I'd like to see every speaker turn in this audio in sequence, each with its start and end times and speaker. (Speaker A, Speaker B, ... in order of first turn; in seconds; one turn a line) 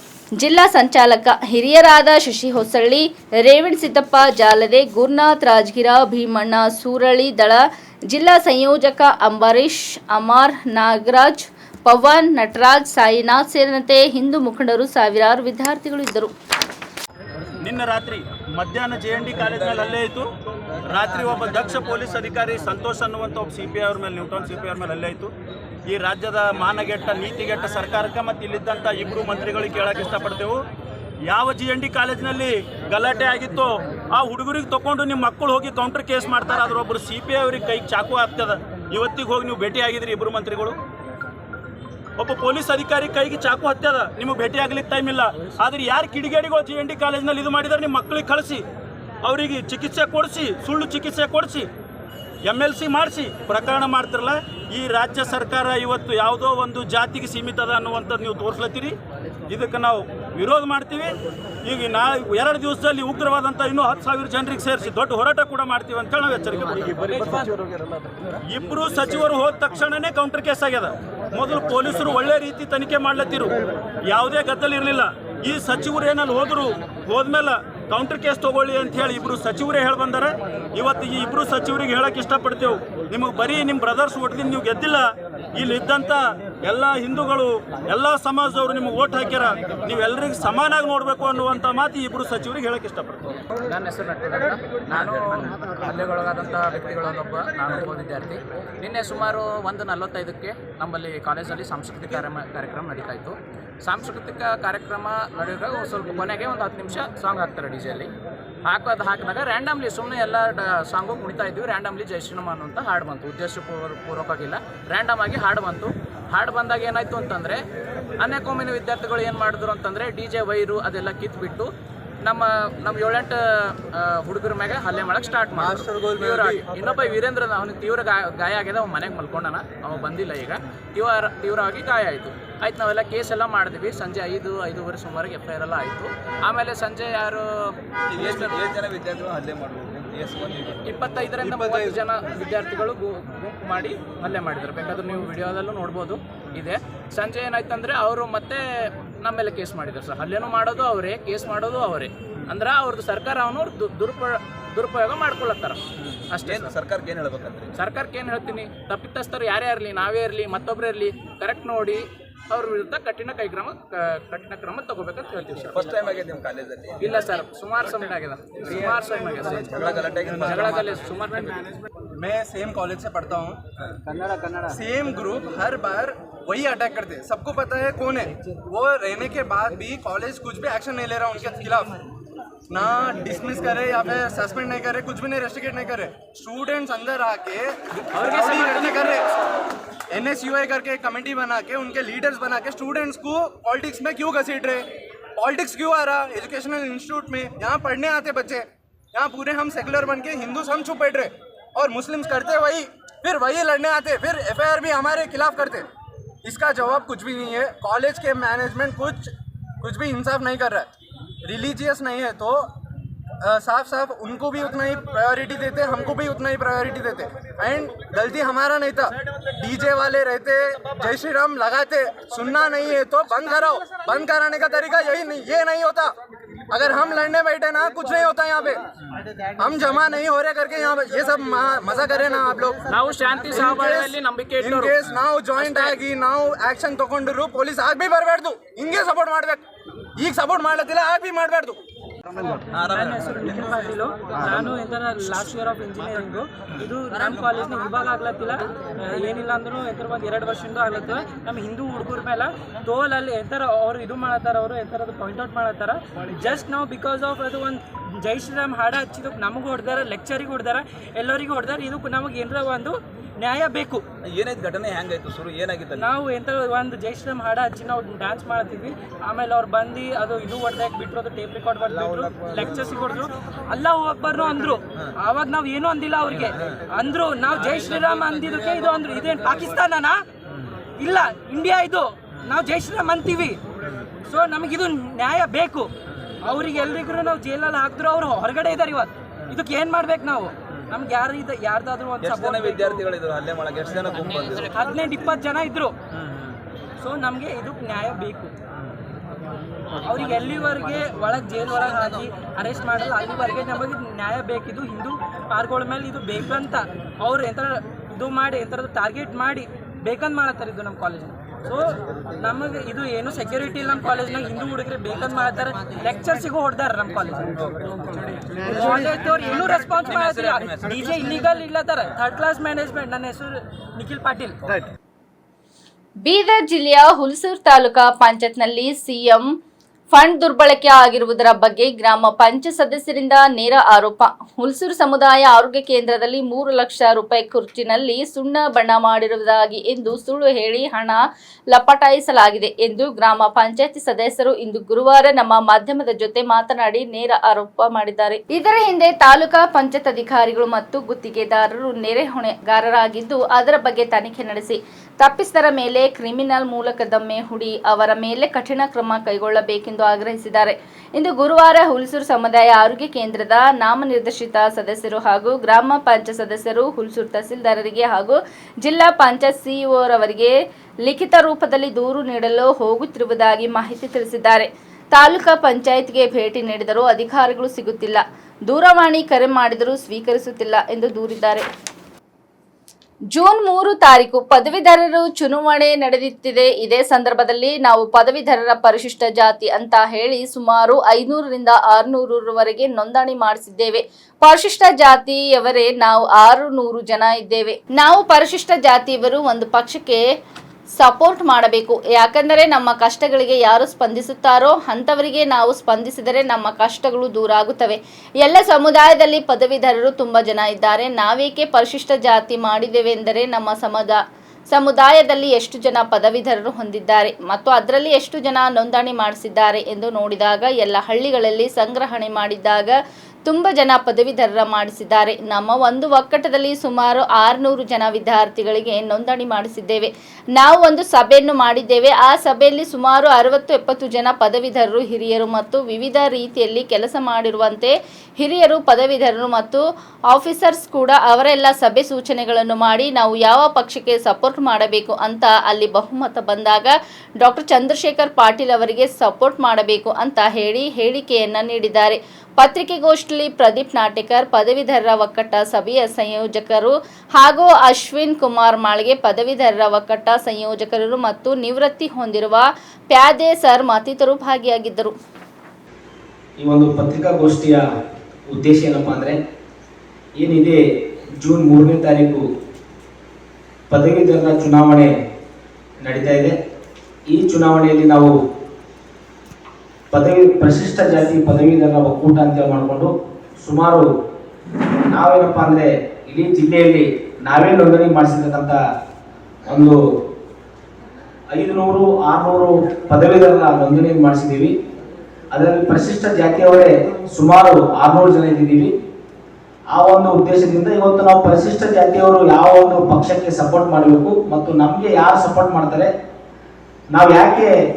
Speaker A: 0.4-16.3
Speaker B: 17.6-20.3
Speaker C: 19.5-19.9
Speaker B: 20.9-25.3
Speaker B: 25.9-30.6
Speaker B: 31.3-40.7
Speaker B: 42.2-48.6
Speaker B: 49.2-51.7
Speaker B: 52.5-59.0
Speaker B: 59.5-67.5
Speaker D: 67.0-67.5
Speaker B: 68.5-73.5
Speaker B: 74.0-93.4
Speaker E: 93.7-108.1
Speaker E: 108.6-117.6
Speaker E: 118.2-121.7
Speaker E: 122.2-138.6
Speaker C: 125.5-126.6
Speaker C: 138.1-140.8
Speaker E: 140.8-156.7
Speaker F: 141.4-142.0
Speaker C: 156.0-157.7
Speaker E: 157.8-166.1
Speaker C: 165.7-167.2
Speaker E: 167.0-171.7
Speaker C: 168.6-170.9
Speaker F: 172.2-173.6
Speaker F: 174.6-182.0
Speaker F: 182.7-189.3
Speaker E: 188.1-189.2
Speaker F: 190.1-205.9
Speaker F: 206.4-210.9
Speaker F: 211.4-212.7
Speaker F: 213.4-226.1
Speaker F: 226.7-228.8
Speaker F: 229.6-232.8
Speaker E: 232.9-234.9
Speaker F: 233.5-239.6
Speaker E: 235.6-236.0
Speaker F: 240.2-241.8
Speaker C: 242.7-243.8
Speaker D: 242.8-264.0
Speaker C: 244.3-244.7
Speaker C: 264.3-266.1
Speaker D: 265.9-280.2
Speaker C: 272.1-272.8
Speaker C: 276.3-276.8
Speaker C: 277.7-278.5
Speaker D: 281.0-283.6
Speaker D: 284.2-285.9
Speaker D: 286.4-293.1
Speaker C: 292.2-295.2
Speaker D: 294.6-295.9
Speaker C: 296.2-296.5
Speaker D: 297.0-298.5
Speaker D: 300.0-317.5
Speaker C: 317.6-321.5
Speaker D: 318.6-324.6
Speaker A: 326.2-329.5
Speaker A: 330.1-341.2
Speaker A: 341.7-381.6
Speaker A: 383.3-400.2
Speaker A: 401.0-414.2
Speaker A: 414.7-422.9
Speaker A: 423.4-465.1
Speaker G: 466.6-467.8
Speaker G: 468.5-469.4
Speaker G: 470.4-470.8
Speaker G: 471.4-472.4
Speaker G: 473.9-475.1
Speaker G: 476.0-476.6
Speaker G: 477.3-478.3
Speaker G: 480.1-484.1
Speaker G: 485.1-488.8
Speaker G: 489.6-490.0
Speaker G: 491.5-494.7
Speaker G: 495.5-498.9
Speaker G: 499.9-506.1
Speaker G: 507.1-507.7